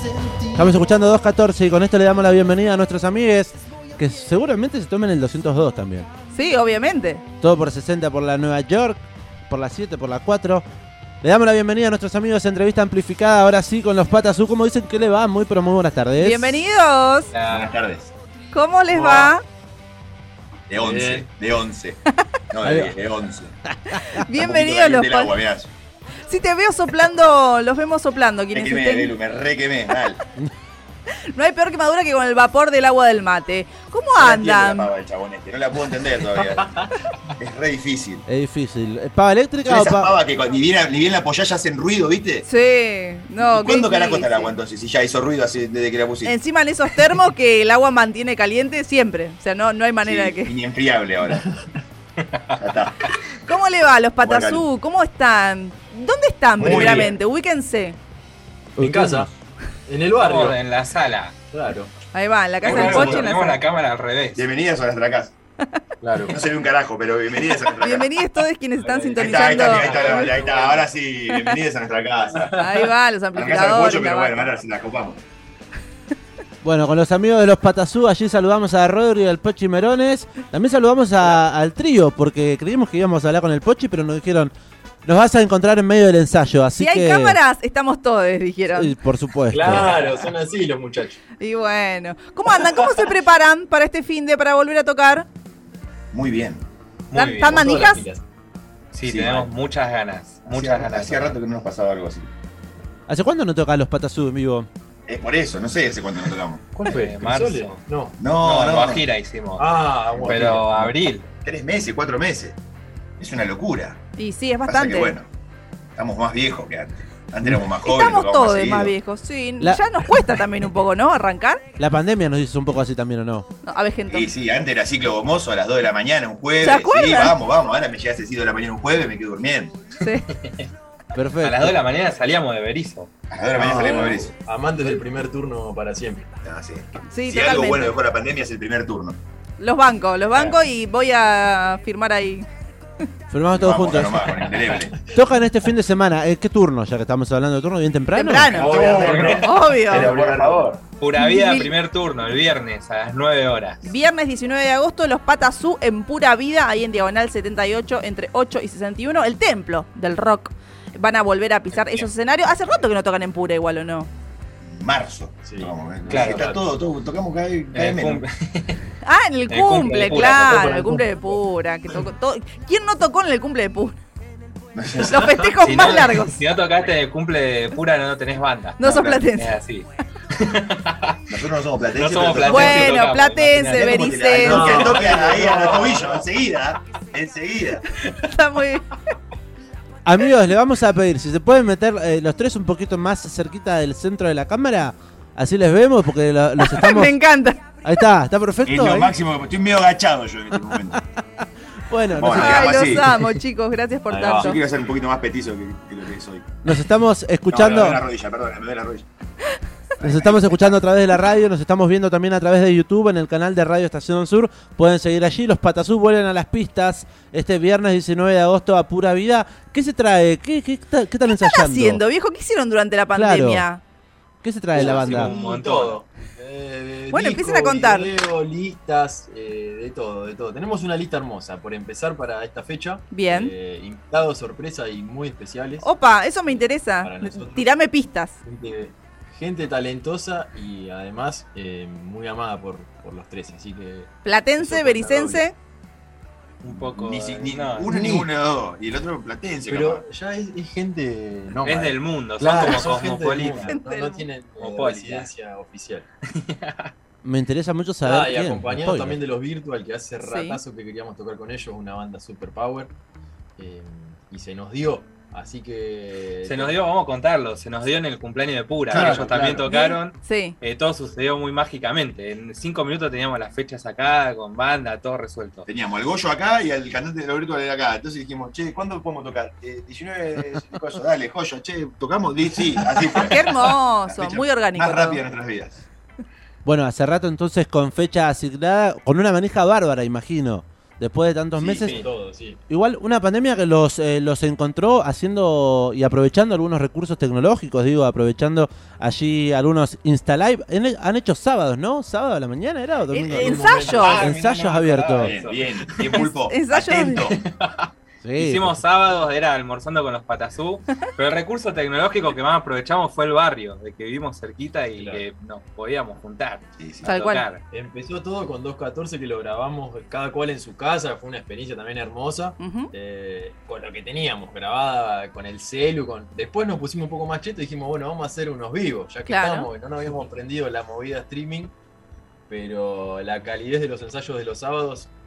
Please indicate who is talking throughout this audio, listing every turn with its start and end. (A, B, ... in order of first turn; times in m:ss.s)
0:00.5-0:06.1 A
0:06.3-0:07.2 B
0:07.4-0:10.6 A
0:11.2-0:16.6 A
0:16.2-0:17.3 B
0:17.3-0:17.7 C
0:17.5-0:18.1 D
0:18.5-0:19.4 B
0:18.9-0:19.3 E
0:20.7-0:22.0 D
0:20.8-0:21.3 E
0:22.5-0:23.5 D
0:22.6-0:22.9 A
0:23.7-0:24.2 A
0:24.0-0:25.3 B
0:24.3-0:25.7 D
0:26.3-0:29.1 B
0:28.5-0:30.2 D
0:31.3-0:34.9 B
0:34.2-0:38.3 D
0:36.4-0:36.9 E
0:38.3-0:40.1 A
0:39.7-0:42.4 D
0:42.5-0:44.5 B
0:43.4-0:46.4 D
0:46.2-0:50.5 B
0:50.0-0:51.4 D
0:51.3-0:51.8 E
0:52.2-0:53.2 C
0:52.6-0:53.0 D
0:53.5-0:58.0 B
0:54.2-0:54.6 D
0:56.6-0:57.2 D
0:56.6-0:57.2 E
0:58.8-0:59.3 A
0:58.8-0:59.3 E
0:59.9-1:00.6 E
1:00.2-1:01.3 C
1:01.5-1:01.9 E
1:02.1-1:03.6 B
1:02.6-1:04.4 C
1:02.6-1:03.3 D
1:04.4-1:05.3 D
1:06.0-1:06.4 E
1:06.3-1:08.1 D
1:07.7-1:10.3 B
1:08.8-1:10.9 E
1:09.2-1:12.6 D
1:11.3-1:11.6 B
1:12.4-1:12.8 E
1:12.6-1:14.4 B
1:13.3-1:15.2 D
1:16.6-1:24.5 A
1:25.0-1:27.4 A
1:26.8-1:29.0 B
1:28.7-1:29.9 A
1:29.5-1:31.2 E
1:31.4-1:35.3 B
1:32.6-1:32.9 E
1:36.1-1:36.6 D
1:37.1-1:37.6 C
1:37.1-1:38.0 B
1:37.5-1:38.2 E
1:38.9-1:41.4 C
1:39.0-1:39.5 D
1:40.5-1:42.3 D
1:43.1-1:44.7 A
1:45.1-1:46.6 D
1:46.7-1:48.2 E
1:46.8-1:47.8 C
1:48.2-1:49.1 D
1:48.3-1:49.7 C
1:49.6-1:51.0 E
1:50.2-1:50.6 D
1:50.2-1:51.3 C
1:51.4-1:52.6 D
1:53.2-1:54.0 D
1:54.2-1:55.2 B
1:54.7-1:55.3 D
1:56.0-1:58.9 D
1:57.8-2:01.6 B
2:01.8-2:03.5 A
2:03.7-2:04.3 B
2:04.1-2:09.7 D
2:06.6-2:07.4 B
2:10.0-2:10.3 B
2:10.4-2:10.7 C
2:11.1-2:11.8 A
2:11.4-2:13.1 C
2:13.3-2:14.3 D
2:13.6-2:16.3 E
2:16.4-2:19.2 D
2:17.1-2:17.9 B
2:19.6-2:22.5 B
2:23.3-2:24.2 A
2:23.5-2:25.0 D
2:24.4-2:24.9 E
2:25.1-2:28.6 A
2:28.1-2:30.1 B
2:28.5-2:30.8 E
2:28.5-2:30.8 D
2:28.8-2:29.4 C
2:31.0-2:33.9 C
2:31.2-2:31.7 B
2:33.8-2:44.1 B
2:41.7-2:42.1 C
2:44.6-2:48.2 D
2:45.4-2:46.6 E
2:46.1-2:46.5 C
2:47.7-2:48.8 C
2:49.0-2:54.0 B
2:49.5-2:50.8 C
2:50.0-2:51.4 E
2:54.8-2:55.9 D
2:55.0-2:56.4 B
2:55.6-2:58.8 C
2:58.8-2:59.6 B
2:58.8-2:59.2 D
2:59.3-3:01.2 C
3:01.3-3:03.0 D
3:01.9-3:05.2 C
3:02.0-3:02.8 E
3:02.4-3:04.7 B
3:03.7-3:07.8 D
3:04.4-3:06.2 E
3:08.0-3:08.9 B
3:10.0-3:17.2 A
3:16.6-3:17.8 B
3:17.8-3:19.1 A
3:18.7-3:21.0 D
3:20.7-3:21.0 A
3:21.9-3:23.0 A
3:22.1-3:23.1 D
3:22.3-3:24.6 B
3:24.1-3:24.6 E
3:24.1-3:26.5 D
3:26.6-3:28.0 A
3:27.5-3:29.1 D
3:30.0-3:30.8 D
3:30.0-3:42.0 A
3:41.3-3:43.8 B
3:43.1-3:43.7 A
3:44.4-3:45.4 A
3:44.8-3:46.0 C
3:44.8-3:55.9 E
3:47.1-3:48.1 B
3:53.1-3:53.5 B
3:55.8-3:58.3 B
3:57.0-3:57.8 E
3:58.4-4:05.5 E
4:04.2-4:05.6 B
4:06.6-4:07.9 C
4:06.6-4:10.0 D
4:07.9-4:08.3 E
4:09.6-4:16.1 E
4:11.6-4:13.8 C
4:13.6-4:14.3 B
4:14.6-4:15.3 C
4:16.4-4:16.9 C
4:17.2-4:19.2 A
4:18.0-4:22.9 E
4:20.2-4:20.6 B
4:23.6-4:26.8 E
4:26.4-4:35.7 C
4:28.9-4:29.4 D
4:28.9-4:29.7 E
4:29.7-4:30.6 B
4:35.7-4:45.8 D
4:43.2-4:45.2 B
4:46.6-4:52.0 A
4:51.6-4:52.0 D
4:51.8-4:52.6 E
4:52.7-5:05.3 A
5:03.1-5:04.2 B
5:03.3-5:04.3 E
5:03.9-5:07.4 D
5:05.1-5:06.2 C
5:06.1-5:07.2 B
5:07.3-5:17.6 C
5:08.2-5:08.8 A
5:15.0-5:15.3 E
5:16.8-5:17.1 D
5:17.0-5:17.5 B
5:17.7-5:31.7 E
5:22.6-5:22.9 B
5:29.3-5:29.7 B
5:32.5-5:35.1 E